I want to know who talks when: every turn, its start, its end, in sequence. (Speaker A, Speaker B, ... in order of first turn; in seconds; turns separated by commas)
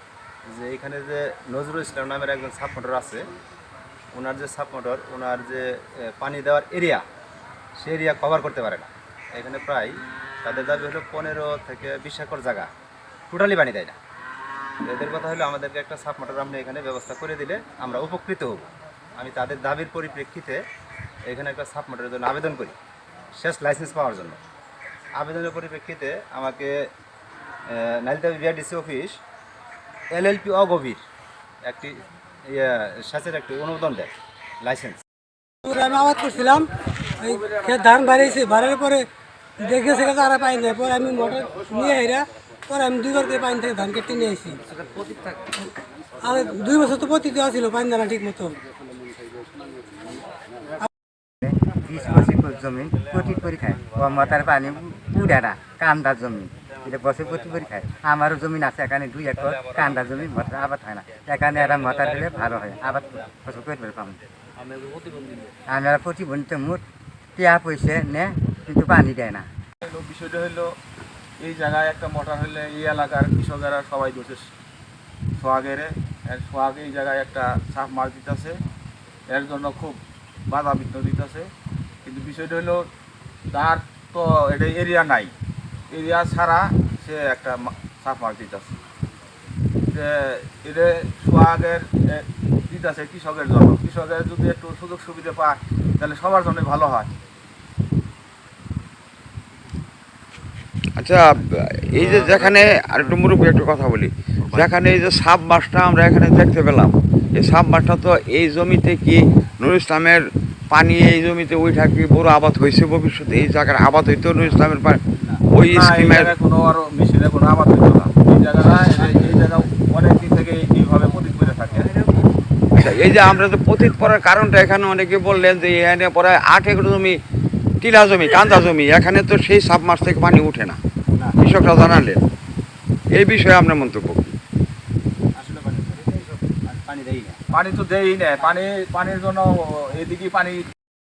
Speaker A: 0.5-3.2, Speaker A: 4.1-7.0, Speaker A: 7.8-12.7, Speaker A: 13.3-14.0, Speaker A: 14.8-18.7, Speaker A: 19.2-20.6, Speaker A: 21.3-22.8, Speaker A: 23.4-24.4, Speaker A: 25.2-26.9, Speaker A: 27.7-29.2, Speaker A: 30.1-31.0, Speaker A: 31.6-34.1, Speaker A: 34.6-35.0, Speaker B: 35.6-36.6, Speaker B: 37.2-39.0, Speaker B: 39.6-44.6, Speaker B: 46.2-48.5, Speaker C: 51.4-64.2, Speaker C: 65.7-66.8, Speaker C: 67.4-69.5, Speaker D: 69.8-70.8, Speaker D: 71.4-74.5, Speaker D: 75.4-78.6, Speaker D: 79.3-81.5, Speaker D: 82.0-82.9, Speaker D: 83.5-85.3, Speaker D: 85.9-88.8, Speaker D: 89.9-97.1, Speaker E: 101.9-110.2, Speaker E: 110.7-115.0, Speaker E: 115.5-116.3, Speaker D: 115.6-122.0, Speaker E: 122.8-127.2, Speaker E: 127.8-130.8, Speaker A: 131.1-131.4, Speaker E: 131.4-132.2, Speaker E: 133.2-134.2, Speaker A: 135.3-137.4, Speaker D: 137.5-140.7